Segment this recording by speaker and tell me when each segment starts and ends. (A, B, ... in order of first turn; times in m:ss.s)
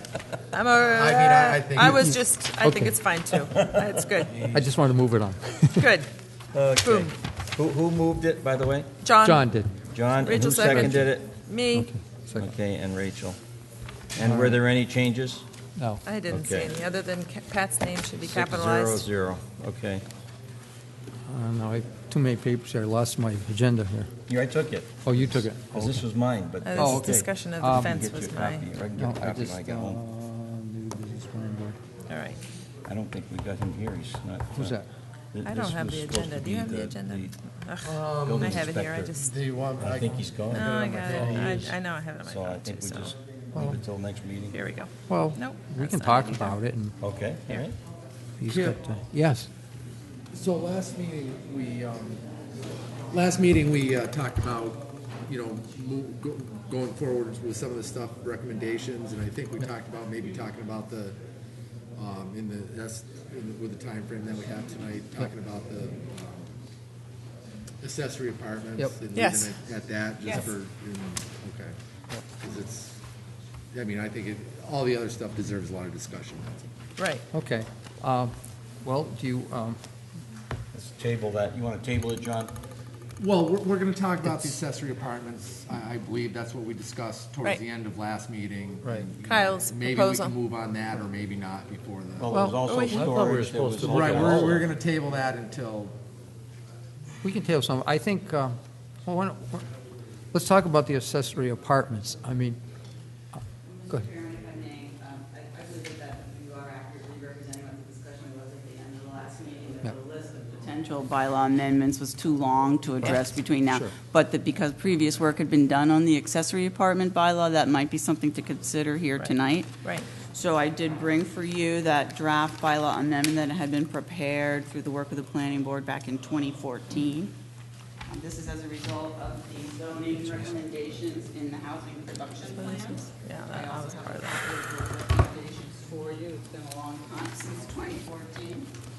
0:00.5-0:04.4 A
0:00.9-0:02.2 B
0:02.6-0:02.9 C
0:03.5-0:04.6 D
0:04.5-0:05.9 C
0:05.8-0:06.1 A
0:06.5-0:08.9 D
0:06.8-0:07.1 A
0:09.0-0:09.4 A
0:09.2-0:09.7 C
0:09.9-0:11.3 D
0:10.2-0:11.9 A
0:10.6-0:11.1 C
0:11.7-0:12.5 C
0:12.4-0:13.4 D
0:14.1-0:15.4 D
0:14.2-0:14.6 C
0:15.8-0:16.0 C
0:16.0-0:19.0 A
0:16.3-0:16.7 D
0:18.2-0:20.0 D
0:21.3-0:24.1 C
0:24.3-0:30.0 D
0:25.0-0:26.0 C
0:26.6-0:28.6 A
0:26.7-0:27.9 C
0:29.0-0:31.8 C
0:32.1-0:32.4 A
0:32.9-0:34.8 D
0:34.5-0:34.9 C
0:35.3-0:37.3 D
0:35.4-0:39.4 A
0:37.8-0:41.7 B
0:38.2-0:39.1 D
0:39.8-0:44.6 D
0:40.5-0:43.1 A
0:41.1-0:41.5 C
0:43.5-0:43.8 C
0:44.5-0:46.6 A
0:45.1-0:47.6 C
0:47.0-0:47.8 D
0:48.4-0:49.5 C
0:48.5-0:48.8 B
0:50.3-0:52.2 B
0:53.1-1:01.2 B
1:01.9-1:06.5 B
1:07.8-1:11.7 B
1:09.1-1:09.5 A
1:12.4-1:13.0 B
1:13.7-1:16.6 B
1:17.0-1:17.2 A
1:17.3-1:19.8 C
1:20.7-1:22.5 D
1:23.2-1:32.3 B
1:29.2-1:30.3 A
1:32.2-1:34.7 D
1:32.3-1:34.6 C
1:32.6-1:33.1 A
1:33.8-1:35.9 B
1:37.2-1:39.6 C
1:40.3-1:42.6 C
1:43.3-1:44.1 C
1:43.6-2:07.3 E
1:53.0-1:53.9 C
1:59.2-2:00.1 A
2:08.1-2:18.7 E
2:12.6-2:14.4 A